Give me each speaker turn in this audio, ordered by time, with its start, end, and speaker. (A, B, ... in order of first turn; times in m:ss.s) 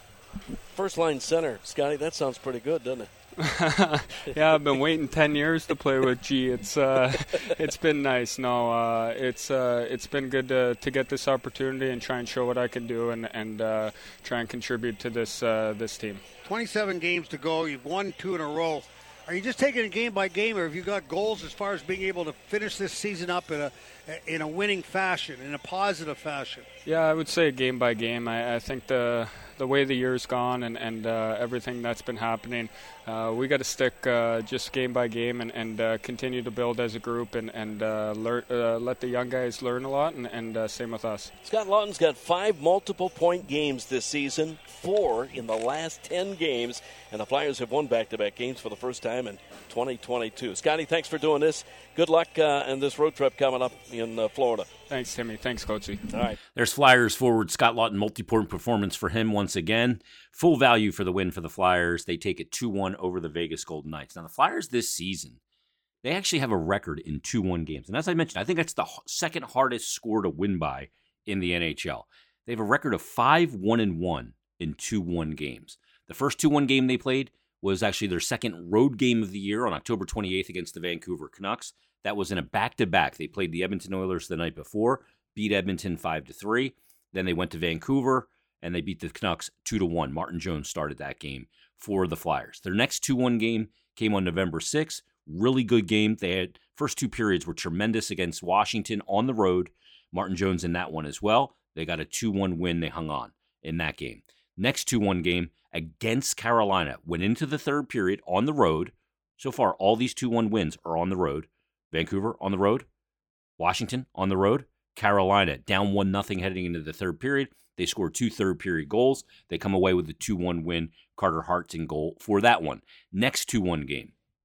0:00.7-0:03.1 A
0:03.4-0:16.2 B
0:16.4-0:26.6 C
0:26.9-0:41.3 B
0:41.4-0:54.7 A
0:54.9-0:56.1 B
0:56.1-0:56.4 A
0:56.5-1:05.4 D
1:06.0-1:52.9 D
1:53.6-2:04.1 D